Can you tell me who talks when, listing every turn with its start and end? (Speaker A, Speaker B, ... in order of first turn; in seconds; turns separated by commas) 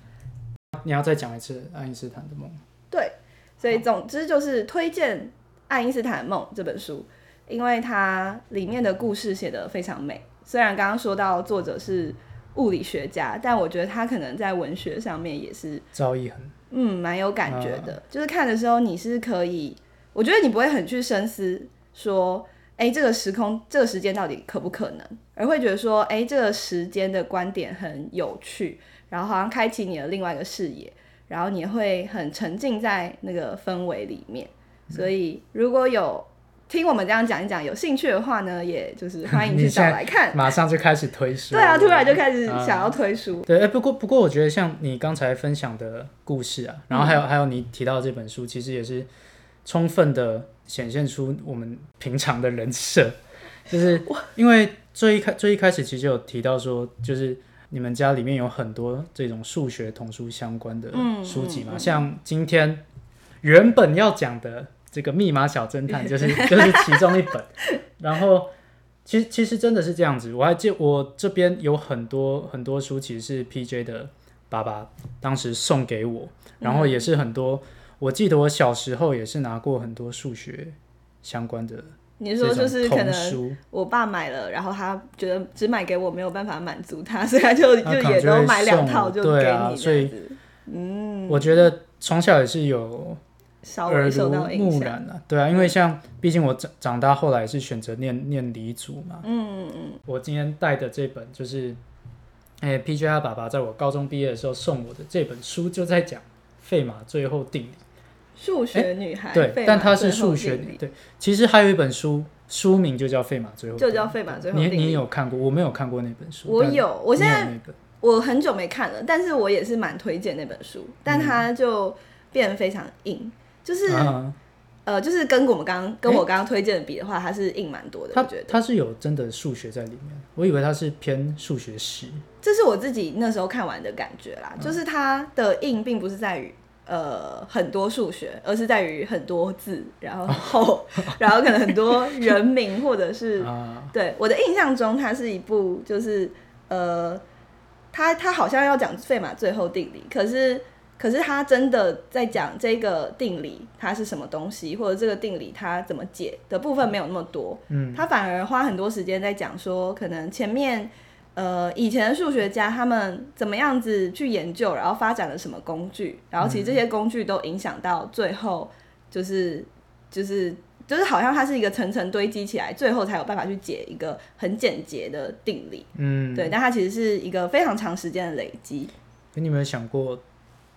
Speaker A: 0.8-2.6, Speaker B: 2.9-15.8, Speaker A: 15.9-16.5, Speaker B: 16.7-40.4, Speaker A: 17.5-17.9, Speaker A: 39.3-49.1, Speaker B: 41.5-43.5, Speaker B: 46.9-47.2, Speaker A: 49.6-53.2, Speaker A: 53.7-62.8, Speaker B: 60.9-62.0, Speaker A: 63.4-68.5, Speaker B: 66.0-67.3, Speaker A: 69.0-83.6, Speaker B: 76.6-77.0, Speaker B: 82.2-91.6, Speaker A: 87.8-90.1, Speaker A: 91.3-93.2, Speaker B: 93.6-95.0, Speaker A: 93.9-99.2, Speaker B: 99.2-100.0, Speaker A: 100.0-101.8, Speaker A: 102.6-107.8, Speaker B: 108.4-110.8, Speaker A: 108.7-117.8, Speaker B: 113.8-115.0, Speaker B: 116.5-124.2, Speaker A: 121.1-121.5, Speaker A: 123.9-124.4, Speaker B: 124.8-128.6, Speaker A: 128.1-132.2, Speaker B: 132.4-147.2, Speaker A: 140.3-142.3, Speaker A: 143.4-143.9, Speaker B: 147.9-178.9, Speaker A: 157.7-158.0, Speaker A: 166.4-166.8, Speaker A: 175.9-176.6, Speaker A: 179.3-180.2